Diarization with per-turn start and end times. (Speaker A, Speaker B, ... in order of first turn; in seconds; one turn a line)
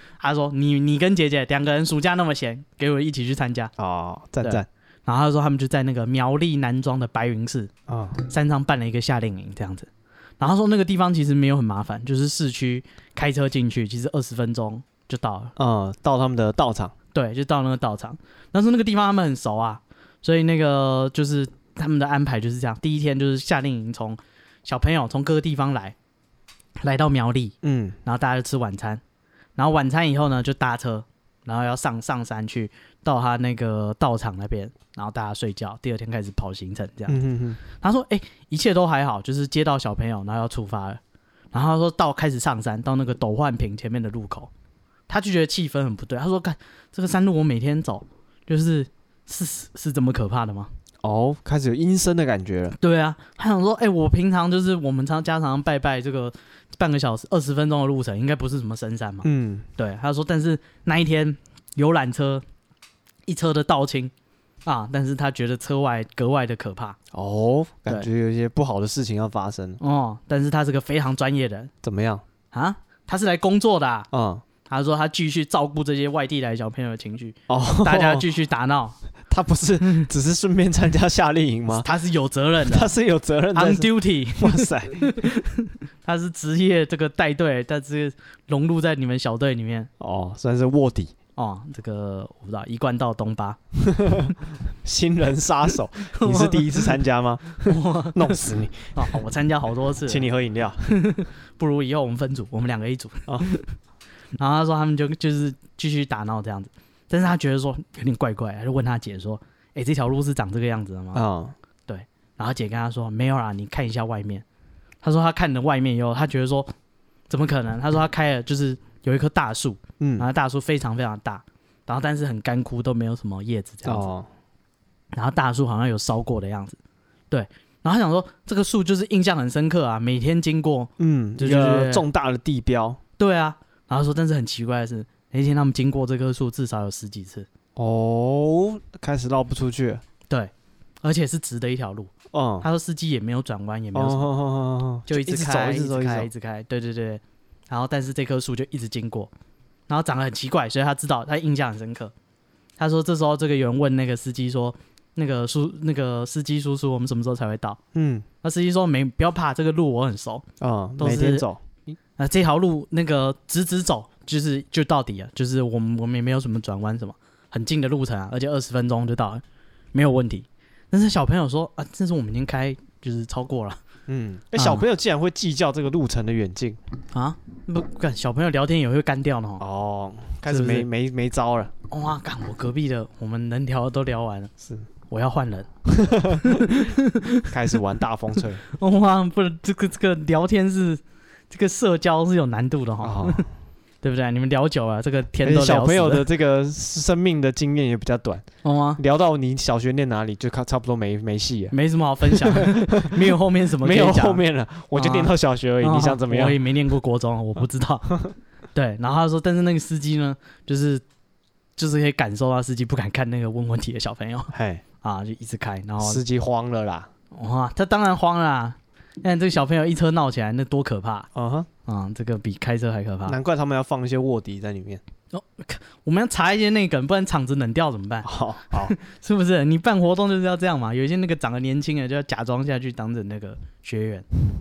Speaker A: 0.2-3.7
Speaker B: 3.8-4.7
Speaker A: 4.4-9.9
Speaker B: 7.9-8.2
Speaker A: 10.4-15.5
Speaker B: 15.6-16.9
Speaker A: 17.1-25.9
Speaker A: 26.8-29.0
Speaker B: 27.6-28.0
Speaker A: 29.6-41.0
Speaker B: 37.1-37.6
Speaker A: 41.5-44.5
Speaker A: 45.1-50.7
Speaker B: 51.0-52.8
Speaker A: 52.8-62.4
Speaker B: 59.2-59.7
Speaker A: 63.3-64.1
Speaker A: 64.7-67.0
Speaker B: 67.1-69.8
Speaker A: 69.8-71.7
Speaker B: 71.8-72.2
Speaker A: 72.5-74.1
Speaker B: 74.1-74.4
Speaker A: 74.7-79.0
Speaker B: 77.5-78.2
Speaker B: 79.3-81.9
Speaker A: 81.7-82.9
Speaker B: 82.6-85.1
Speaker A: 83.5-89.9
Speaker B: 90.0-91.1
Speaker A: 91.4-93.6
Speaker B: 93.8-99.2
Speaker A: 96.1-96.9
Speaker A: 97.6-98.4
Speaker A: 99.0-100.3
Speaker B: 100.1-100.9
Speaker A: 100.9-103.7
Speaker A: 104.4-111.2
Speaker B: 111.1-111.5
Speaker A: 111.9-114.5
Speaker A: 115.0-116.7
Speaker A: 117.3-124.1
Speaker B: 120.0-120.3
Speaker B: 123.8-124.3
Speaker A: 125.1-126.8
Speaker A: 127.3-132.1
Speaker B: 131.0-133.0
Speaker A: 133.2-137.5
Speaker B: 137.8-140.0
Speaker A: 141.0-142.1
Speaker B: 142.3-142.7
Speaker A: 142.6-144.2
Speaker B: 143.9-146.3
Speaker A: 145.1-149.3
Speaker A: 149.9-152.1
Speaker A: 152.8-157.8
Speaker B: 157.9-158.3
Speaker A: 158.4-160.4
Speaker B: 160.6-161.6
Speaker A: 161.0-161.5
Speaker A: 162.2-169.4
Speaker A: 169.9-173.8
Speaker B: 174.1-176.8
Speaker A: 174.6-174.9
Speaker A: 177.1-179.6
Speaker B: 179.6-181.7
Speaker A: 180.5-180.9
Speaker A: 181.9-184.5
Speaker B: 184.6-184.9
Speaker A: 185.1-185.7
Speaker B: 185.9-186.6
Speaker A: 186.4-187.5
Speaker B: 187.5-188.6
Speaker A: 188.7-193.5
Speaker B: 193.0-193.5
Speaker A: 194.0-196.2
Speaker B: 195.4-198.5
Speaker A: 198.6-199.0
Speaker B: 199.0-206.6
Speaker A: 201.7-204.4
Speaker A: 204.9-208.1
Speaker A: 208.8-211.0
Speaker A: 211.8-216.2
Speaker B: 214.5-214.8
Speaker B: 216.0-217.1
Speaker A: 217.3-221.3
Speaker B: 221.3-221.7
Speaker A: 221.9-223.4
Speaker B: 223.3-225.0
Speaker A: 225.3-234.2
Speaker B: 228.2-228.9